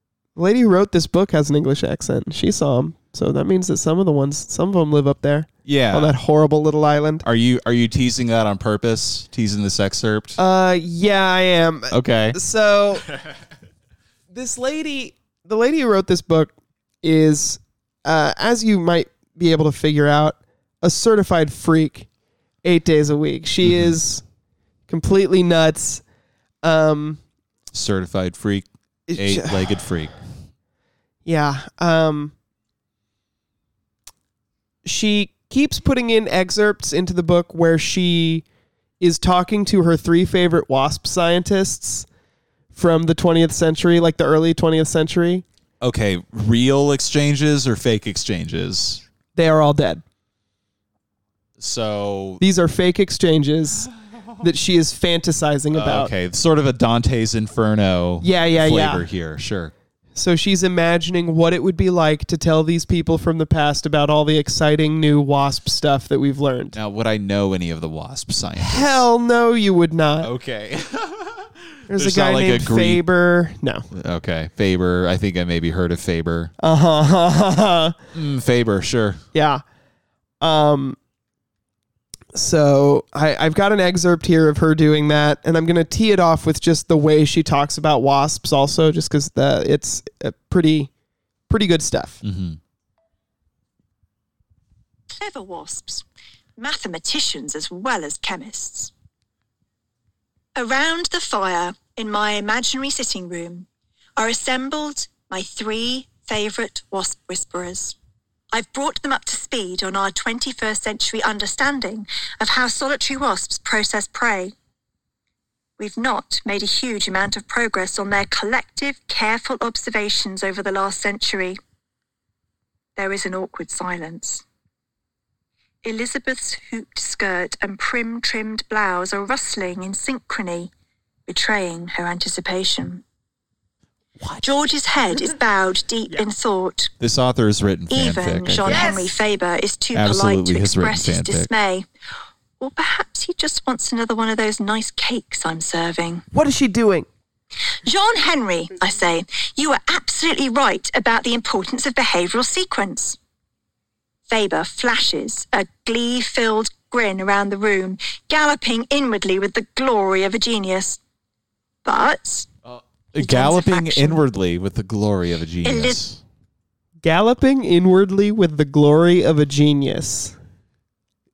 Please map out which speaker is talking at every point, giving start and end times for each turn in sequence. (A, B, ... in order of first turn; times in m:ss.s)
0:00.4-0:07.2 A
0:05.6-0:06.1 B
0:07.2-0:10.4 B
0:10.4-0:13.1 A
0:11.9-0:12.4 B
0:14.3-0:22.1 A
0:22.6-0:24.2 A
0:23.6-0:24.0 B
0:24.9-0:26.0 A
0:26.6-0:27.2 A
0:27.7-0:30.1 B
0:29.1-0:29.8 A
0:31.2-0:32.3 A
0:34.8-0:38.4 A
0:39.0-0:42.0 A
0:42.7-0:45.4 A
0:45.8-0:49.0 B
0:49.3-0:50.0 A
0:51.6-0:52.4 B
0:52.4-0:53.9 A
0:54.4-0:56.1 A
0:55.7-0:59.7 B
0:58.2-0:59.1 A
1:00.1-1:06.8 A
1:06.7-1:09.0 B
1:08.6-1:10.3 A
1:10.2-1:13.0 B
1:11.9-1:13.9 A
1:13.9-1:16.5 B
1:16.6-1:18.0 A
1:18.1-1:19.2 B
1:19.3-1:19.6 A
1:20.4-1:21.0 A
1:22.3-1:30.9 A
1:31.5-1:32.2 A
1:32.2-1:32.6 B
1:35.1-1:36.0 C
1:36.6-1:38.9 C
1:40.6-1:48.0 C
1:48.5-1:54.5 C
1:55.8-2:01.6 C
2:03.0-2:04.4 C
2:05.8-2:10.7 C
2:11.3-2:13.0 C
2:14.4-2:16.9 C
2:17.0-2:18.9 B
2:17.9-2:21.9 C
2:18.6-2:19.1 A
2:19.9-2:21.5 B
2:22.6-2:26.2 C
2:26.3-2:27.1 A
2:27.8-2:33.2 C
2:34.3-2:41.0 C
2:41.8-2:42.5 C
2:42.6-2:46.2 B
2:43.2-2:44.2 C
2:45.6-2:46.0 C
2:47.0-2:50.4 A